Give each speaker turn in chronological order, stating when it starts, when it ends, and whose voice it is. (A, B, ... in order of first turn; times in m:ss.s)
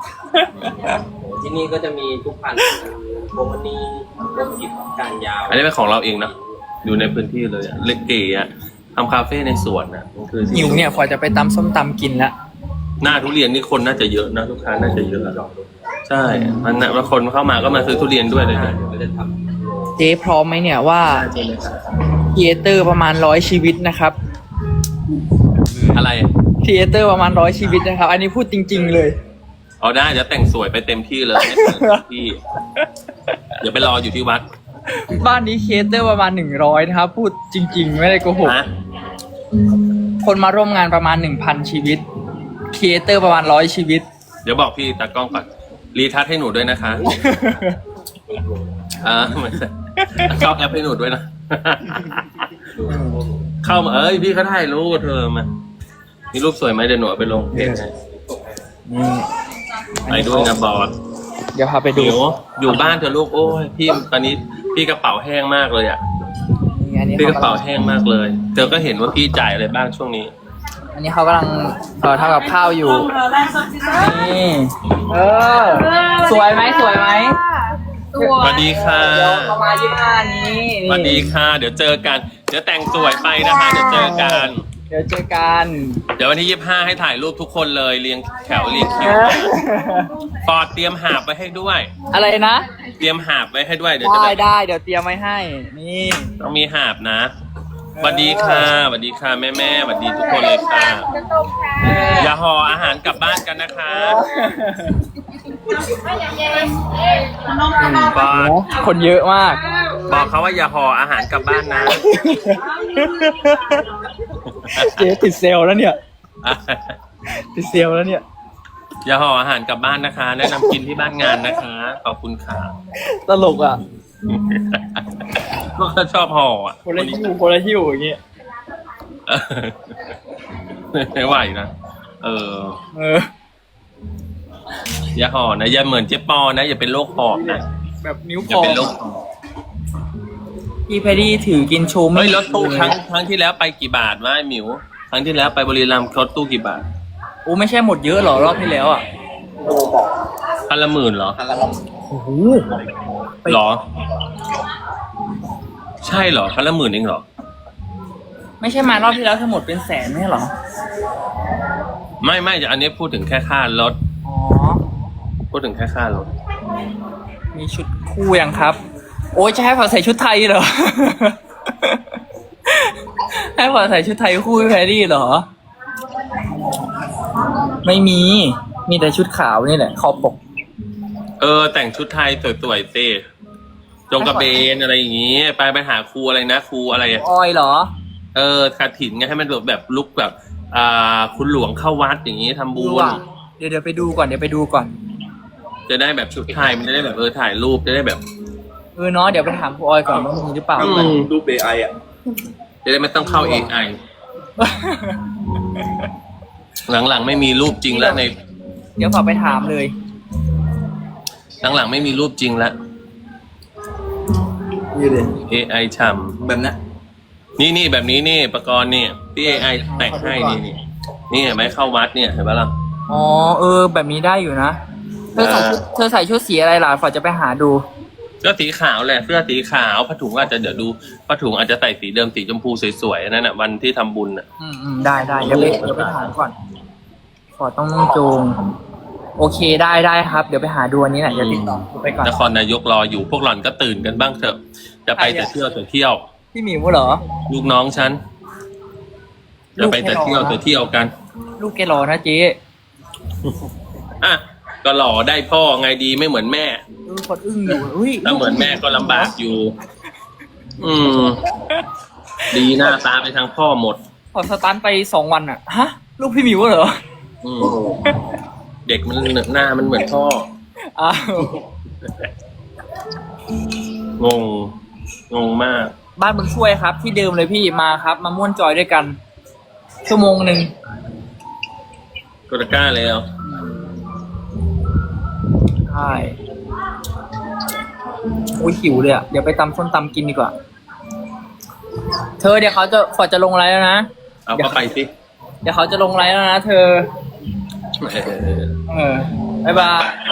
0:00.3-0:01.0 A
0:01.0-0:05.6 B
0:05.5-0:06.3 C
0:06.8-0:11.0 C
0:10.5-0:12.3 A
0:13.0-0:15.4 C
0:16.0-0:18.8 C
0:16.2-0:16.7 A
0:17.6-0:19.6 B
0:20.0-0:21.3 A
0:21.1-0:21.8 C
0:22.3-0:24.2 A
0:25.7-0:26.0 B
0:25.9-0:26.3 C
0:26.6-0:29.2 A
0:29.8-0:32.4 C
0:31.4-0:32.0 A
0:33.6-0:34.4 C
0:34.9-0:38.6 A
0:38.4-0:38.7 C
0:40.2-0:42.0 A
0:42.7-0:44.0 A
0:44.4-0:47.2 C
0:47.1-0:47.8 A
0:49.0-0:52.4 C
0:50.0-0:50.4 A
0:52.8-0:53.2 A
0:53.6-0:55.5 C
0:56.3-0:57.9 C
0:57.5-0:57.8 A
0:58.9-0:59.3 A
1:00.0-1:00.6 A
1:00.1-1:00.9 C
1:01.5-1:02.2 A
1:01.9-1:06.0 C
1:06.7-1:07.6 A
1:07.2-1:10.3 C
1:10.9-1:13.1 A
1:13.8-1:17.4 A
1:18.1-1:21.2 A
1:18.4-1:19.6 C
1:20.9-1:24.6 C
1:23.6-1:26.0 A
1:26.2-1:29.5 C
1:28.9-1:30.1 A
1:30.4-1:31.9 C
1:32.1-1:32.6 A
1:33.0-1:34.4 C
1:34.0-1:36.3 A
1:36.4-1:37.3 C
1:38.0-1:38.7 A
1:38.0-1:41.1 C
1:41.8-1:42.3 A
1:42.1-1:44.2 C
1:44.0-1:45.1 A
1:47.8-1:49.6 A
1:47.8-1:48.6 C
1:50.0-1:52.0 C
1:51.9-1:53.9 A
1:54.4-1:55.0 C
1:54.6-1:56.0 A
1:56.4-1:57.0 C
1:57.3-1:58.2 A
1:59.0-2:02.7 C
2:00.5-2:00.8 A
2:03.0-2:03.8 A
2:04.2-2:07.2 C
2:06.8-2:08.2 A
2:09.3-2:09.9 C
2:10.9-2:12.8 C
2:12.9-2:13.3 A
2:15.1-2:17.6 C
2:18.0-2:18.9 A
2:18.4-2:19.2 C
2:20.9-2:23.0 A
2:22.1-2:26.8 C
2:27.4-2:29.0 A
2:29.6-2:30.1 B
2:30.7-2:31.4 C
2:31.3-2:31.8 B
2:32.1-2:32.8 A
2:33.4-2:33.8 C
2:36.0-2:37.2 C
2:38.6-2:40.5 A
2:42.2-2:44.0 C
2:44.2-2:44.8 A
2:45.5-2:46.3 C
2:47.5-2:48.8 A
2:49.3-2:52.2 A
2:52.7-2:55.4 A
2:57.8-3:00.4 A
3:01.4-3:03.2 C
3:04.1-3:07.2 C
3:04.2-3:04.6 A
3:07.1-3:07.9 A
3:08.3-3:13.2 C
3:12.7-3:14.9 A
3:15.9-3:18.2 C
3:19.0-3:21.1 A
3:20.8-3:21.3 C
3:20.8-3:21.9 B
3:22.8-3:24.0 C
3:24.6-3:26.0 A
3:26.9-3:28.4 C
3:27.9-3:28.2 A
3:29.0-3:29.9 A
3:31.6-3:32.8 C
3:34.9-3:35.4 B
3:35.5-3:36.3 C
3:36.4-3:36.8 B
3:37.6-3:42.7 C
3:39.5-3:40.6 A
3:43.1-3:44.8 A
3:45.3-3:47.8 A
3:45.4-3:45.8 C
3:48.4-3:54.4 C
3:54.6-3:56.5 A
3:55.4-3:56.3 C
3:57.6-3:58.6 A
3:59.4-4:02.4 A
4:01.3-4:06.2 C
4:05.1-4:05.6 A
4:06.5-4:07.2 A
4:07.5-4:08.2 C
4:09.8-4:11.1 C
4:09.8-4:10.6 A
4:11.6-4:12.6 A
4:14.2-4:16.8 C
4:17.0-4:19.3 A
4:18.2-4:19.7 C
4:20.8-4:21.4 C
4:22.5-4:22.9 A
4:22.5-4:24.0 C
4:24.3-4:27.0 A
4:27.4-4:27.9 C
4:27.6-4:28.3 A
4:28.8-4:30.5 C
4:31.0-4:31.6 A
4:34.2-4:34.7 C
4:35.3-4:35.9 C
4:36.2-4:39.2 A
4:40.0-4:40.7 A
4:42.5-4:43.2 C
4:43.4-4:43.8 A
4:45.8-4:46.4 A
4:48.5-4:50.5 A
4:52.4-4:54.8 A
4:54.4-4:55.1 C
4:55.6-4:57.1 A
4:58.0-4:58.7 C
4:58.9-5:00.2 A